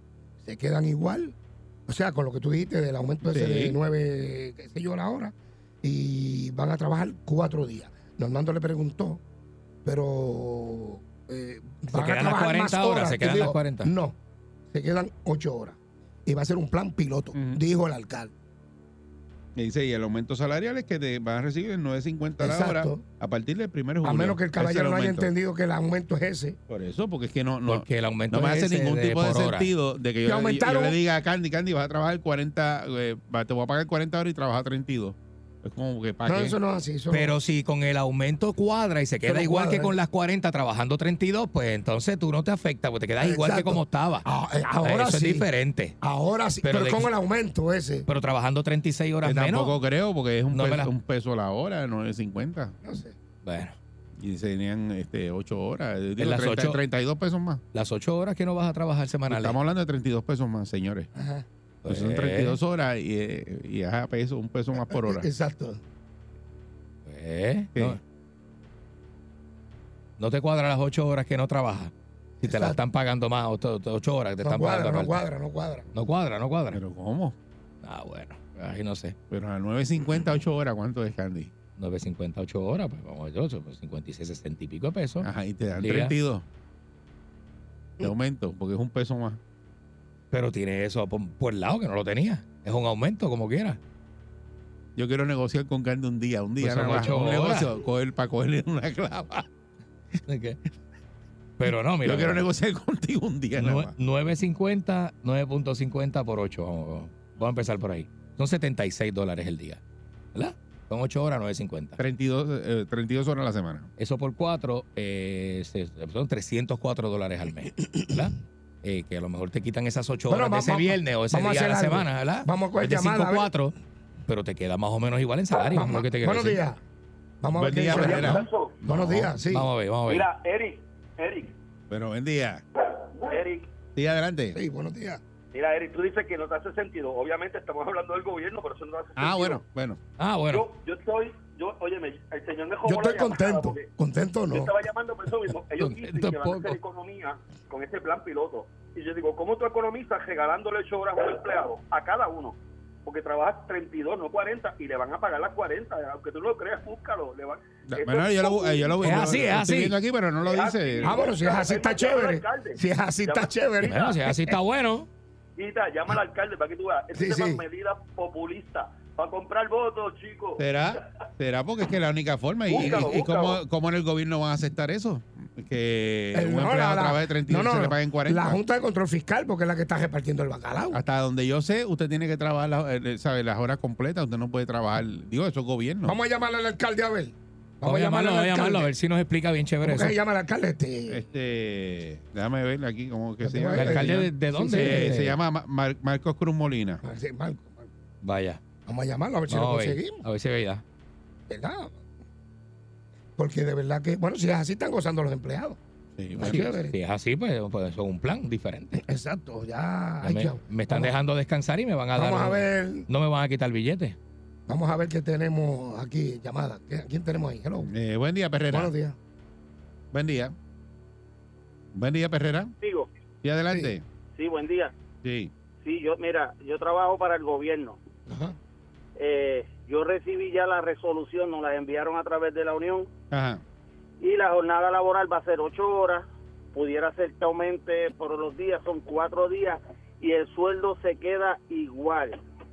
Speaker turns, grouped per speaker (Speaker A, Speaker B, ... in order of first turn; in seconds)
Speaker A: 0.4-1.4, 1.9-9.2, 9.8-14.2, 14.7-18.3, 22.4-23.1, 24.0-26.6, 30.3-31.0, 36.3-37.3, 39.2-40.0, 43.2-45.5, 46.0-48.1, 52.8-53.2, 61.1-61.5, 64.8-65.8, 72.4-72.8, 74.4-75.9, 120.3-123.5, 125.7-126.8, 127.4-129.7, 134.5-135.2, 142.8-144.7, 161.0-164.6, 167.1-167.6, 176.3-181.0, 186.1-188.9, 189.8-191.2, 193.4-195.2, 197.0-197.9, 198.9-200.2, 201.5-202.0, 203.4-205.8, 206.4-207.0, 208.9-211.2, 212.1-213.1, 214.7-217.9, 218.7-219.2, 228.3-228.6
Speaker B: 3.3-3.8, 17.4-17.6, 19.6-25.3, 26.7-36.6, 49.2-52.8, 54.2-57.6, 59.3-61.1, 61.9-65.3, 76.7-77.4, 79.3-81.5, 85.2-86.5, 88.0-89.4, 95.0-99.5, 102.0-103.9, 112.0-113.9, 127.5-129.3, 131.9-132.6, 133.9-134.6, 139.2-140.0, 157.9-161.3, 170.6-178.6, 180.9-186.2, 191.1-197.0, 206.2-206.7, 217.9-218.9, 220.1-220.6, 221.9-222.7, 223.4-224.0, 225.2-225.5, 233.3-233.6
Speaker C: 11.9-13.9, 27.7-29.7, 37.1-44.3, 44.8-46.0, 46.6-47.1, 48.1-49.8, 50.5-50.9, 53.4-53.8, 56.2-56.8, 57.7-59.6, 61.8-62.6, 67.1-68.0, 70.2-75.2, 75.9-76.8, 77.8-79.2, 81.8-86.2, 90.3-93.8, 96.6-97.7, 100.3-100.6, 101.6-102.5, 103.6-109.8, 110.3-112.0, 114.0-123.8, 124.3-126.6, 129.5-130.3, 140.2-140.7, 145.8-146.8, 159.0-160.0, 163.8-165.1, 187.8-190.2, 193.7-195.4, 198.2-198.6, 199.5-200.8, 206.4-209.0, 210.2-214.2
Speaker D: 127.8-128.8, 130.1-131.5, 133.0-133.7, 135.5-139.6, 140.5-143.9, 144.5-159.3, 160.4-163.5, 165.6-170.7, 172.7-173.6
Speaker E: 222.8-223.1, 224.4-224.9, 225.8-228.0, 229.2-233.1, 234.2-242.4